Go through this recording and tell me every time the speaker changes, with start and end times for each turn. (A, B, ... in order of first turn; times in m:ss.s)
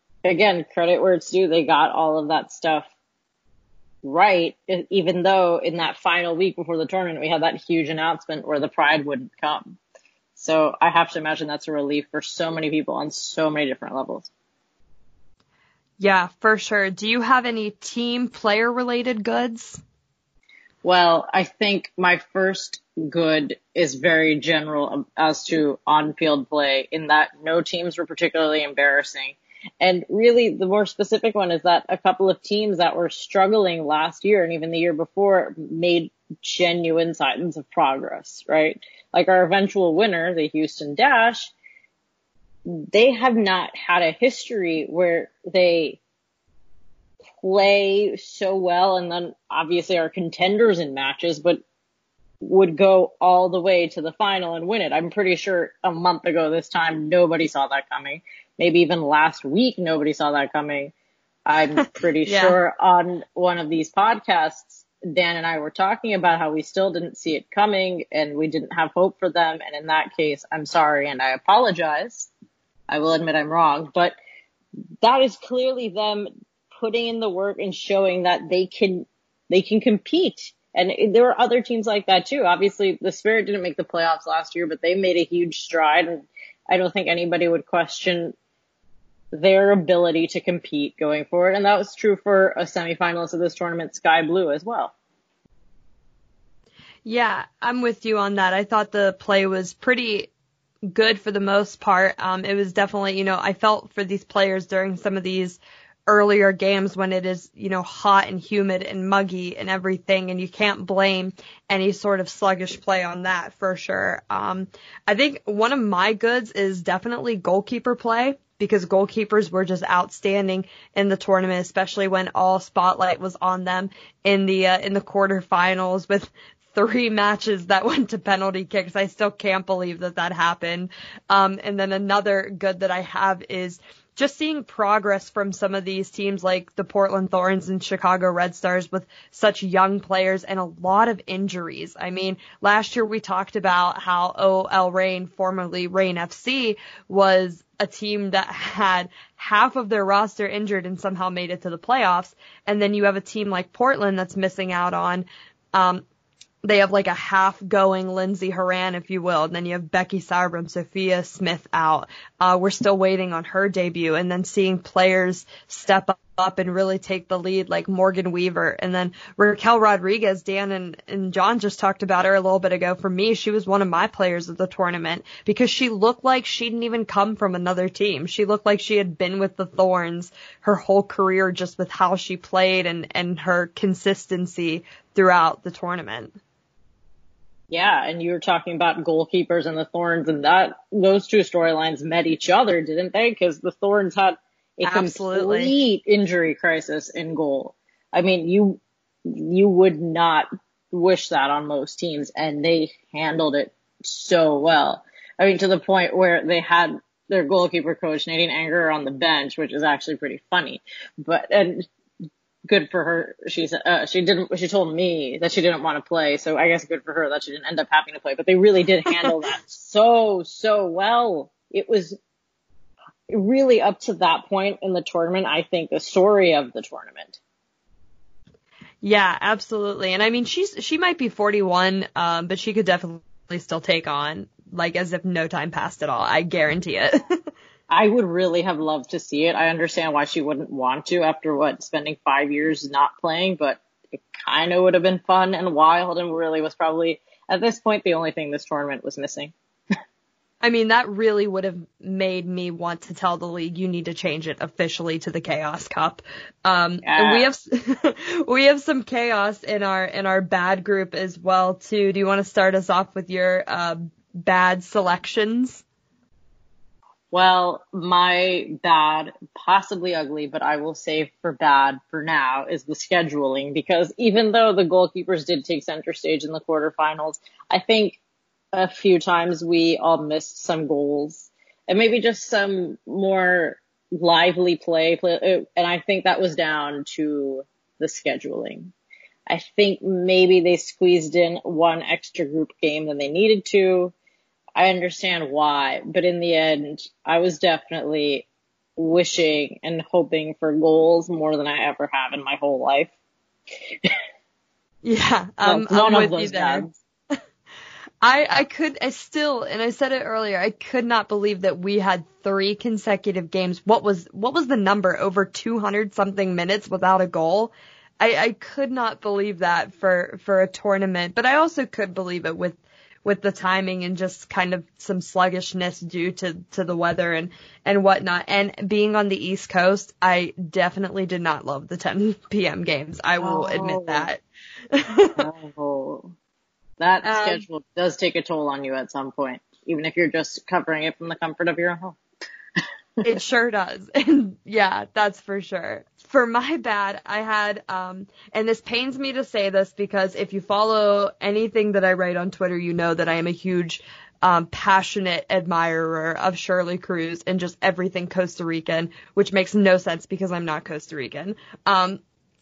0:00.2-0:02.9 A
0:04.0-0:09.8 A
0:10.4-0:14.3 A
0:16.0-0:19.8 B
0:20.8-0:41.5 A
0:42.7-0:46.0 A
0:47.4-0:51.6 A
0:52.4-1:00.9 A
1:01.5-1:12.3 A
1:02.3-1:02.6 B
1:12.9-1:14.2 A
1:15.0-1:28.4 A
1:29.3-1:34.9 A
1:37.0-1:40.3 B
1:40.9-2:36.0 B
2:36.6-3:06.4 B
3:07.7-3:31.9 A
3:14.9-3:15.7 B
3:32.7-3:42.2 A
3:43.3-3:47.4 A
3:49.0-3:57.4 B
3:57.9-4:09.5 A
4:10.6-4:25.8 B
4:17.0-4:17.5 A
4:27.3-4:38.2 A
4:38.7-4:48.9 A
4:49.5-4:54.1 A
4:54.8-4:58.5 A
4:59.0-5:03.1 A
5:05.0-5:06.9 B
5:05.6-5:07.0 A
5:08.2-5:34.4 B
5:33.4-5:34.3 A
5:34.9-5:35.5 B
5:35.4-5:36.3 A
5:37.0-5:42.2 A
5:37.2-5:37.6 B
5:43.2-6:02.2 B